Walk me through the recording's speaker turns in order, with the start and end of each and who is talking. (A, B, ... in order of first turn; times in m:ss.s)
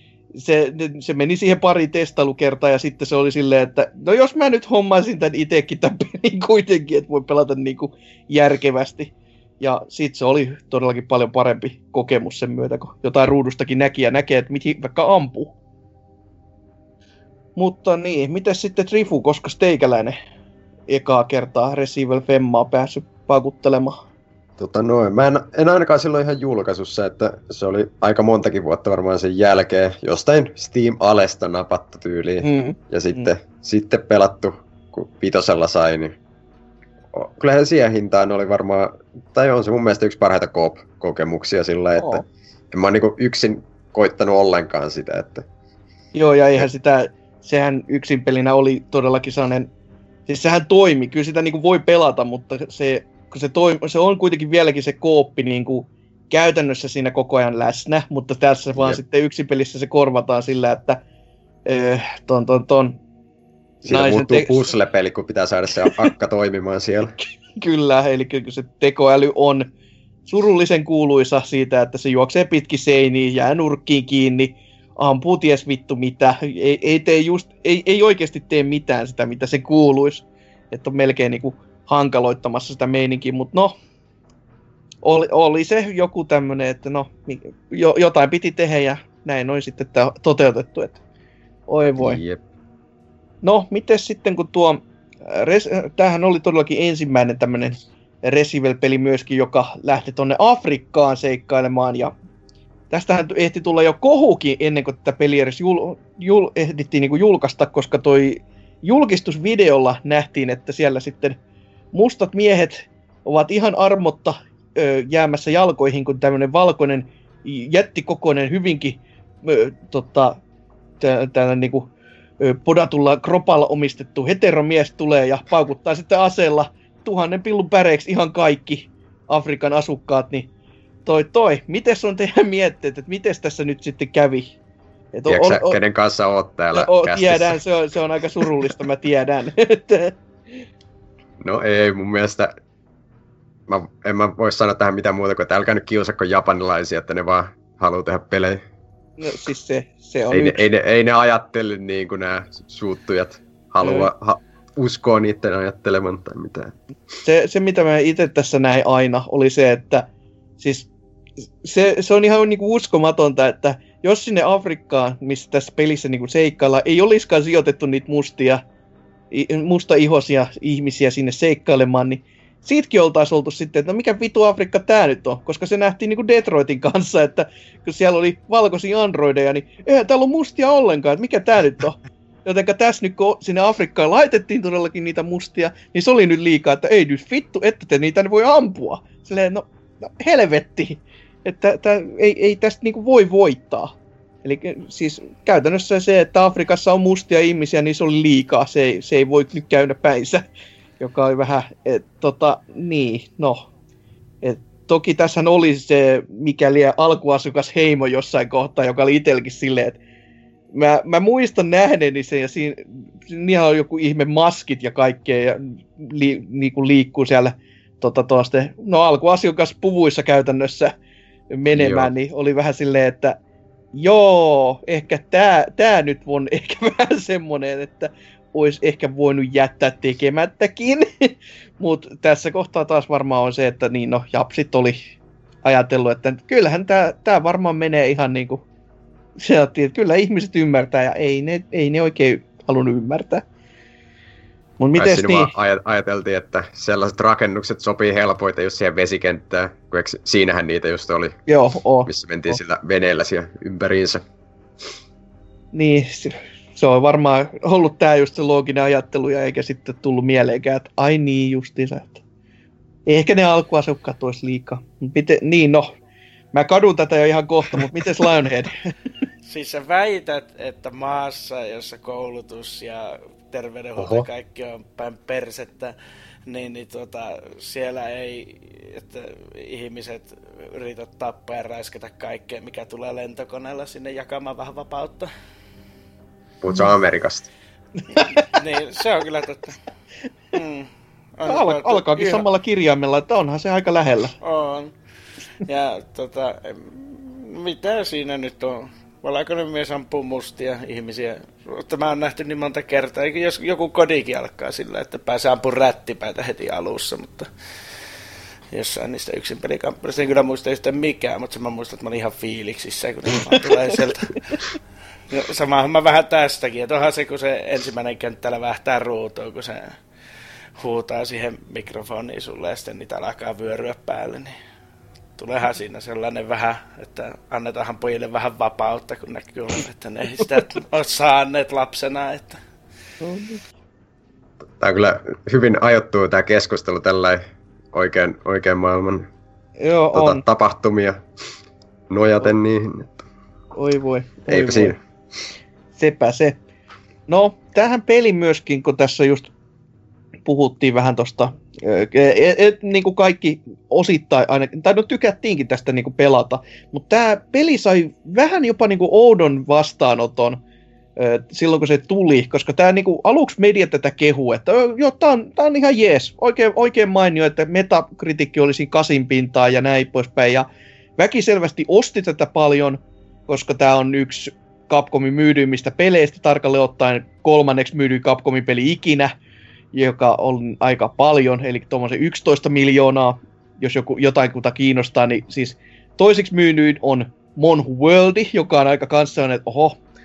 0:00.3-0:15.5 A
0:17.6-0:20.2 A
0:20.9-0:24.0 A
0:24.6-0:36.1 B
0:32.4-0:33.3 A
0:37.1-0:45.4 B
0:42.0-0:42.2 A
0:46.1-0:49.7 A
0:50.3-1:01.0 A
1:01.6-1:03.0 A
1:03.8-1:04.7 A
1:03.8-1:07.1 B
1:07.6-1:09.7 A
1:10.2-1:23.8 A
1:25.0-1:31.0 A
1:31.7-1:32.2 A
1:32.0-1:32.4 B
1:33.4-1:42.1 A
1:42.9-1:51.4 A
1:51.9-2:00.4 A
2:01.0-2:10.5 A
2:11.0-2:14.6 A
2:15.1-2:15.8 A
2:15.3-2:17.6 B
2:16.7-2:20.6 A
2:21.4-2:22.5 B
2:23.7-2:28.6 B
2:29.2-2:30.6 A
2:30.3-2:36.8 B
2:33.8-2:34.1 A
2:37.2-2:40.9 A
2:41.4-2:48.6 A
2:49.3-3:20.4 A
3:21.0-3:23.7 A
3:24.4-3:30.0 A
3:30.7-3:40.9 A
3:41.5-3:43.4 A
3:41.7-3:42.1 B
3:43.9-3:55.0 A
3:55.6-3:58.6 A
3:59.4-4:03.4 A
4:04.8-4:05.5 A
4:05.0-4:11.4 B
4:11.5-4:12.6 A
4:12.1-4:14.2 B
4:15.7-4:22.2 A
4:23.0-4:25.9 A
4:26.5-4:28.9 A
4:29.5-4:35.9 C
4:34.0-4:34.3 B
4:36.5-4:45.3 C
4:46.6-4:47.5 B
4:48.1-4:48.6 A
4:48.4-4:49.8 C
4:50.5-4:52.4 C
4:51.4-4:54.3 A
4:54.4-4:54.9 C
4:55.6-5:07.5 C
5:08.7-5:14.6 C
5:15.3-5:19.9 C
5:20.8-5:24.5 C
5:25.4-5:32.6 C
5:33.2-5:33.6 A
5:34.8-5:37.4 B
5:37.9-5:39.3 B
5:39.8-5:40.4 A
5:40.1-5:41.2 B
5:42.1-5:43.2 B
5:43.7-5:45.0 A
5:44.5-5:45.0 B
5:46.0-5:46.6 A
5:47.3-5:49.5 A
5:50.4-6:00.6 A
6:01.2-6:19.3 A
6:19.9-6:30.0 A